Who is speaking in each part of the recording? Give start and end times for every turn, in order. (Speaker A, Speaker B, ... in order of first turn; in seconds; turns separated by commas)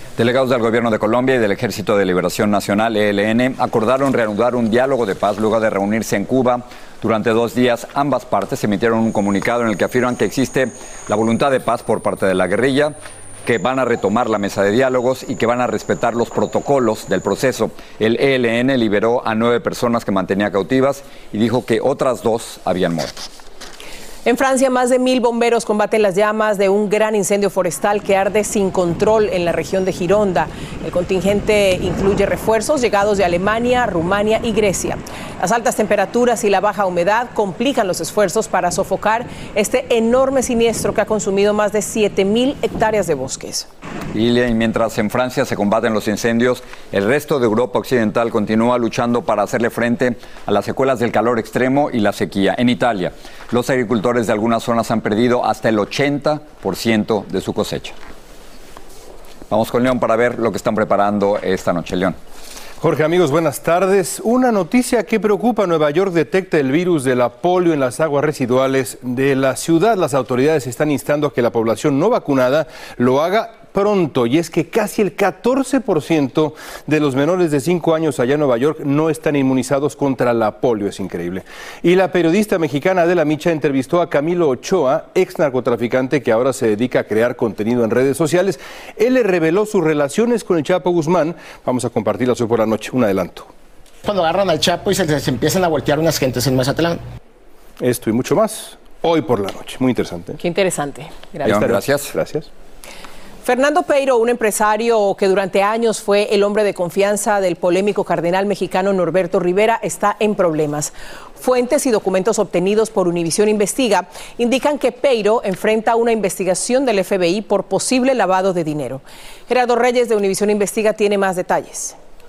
Speaker A: 0.2-23.1, Speaker B: 24.2-43.7, Speaker A: 44.1-58.0, Speaker A: 59.5-62.2, Speaker C: 62.8-93.5, Speaker D: 94.0-97.0, Speaker C: 97.8-100.4, Speaker B: 100.4-101.6, Speaker C: 101.4-102.5, Speaker A: 101.4-102.1, Speaker B: 103.4-122.0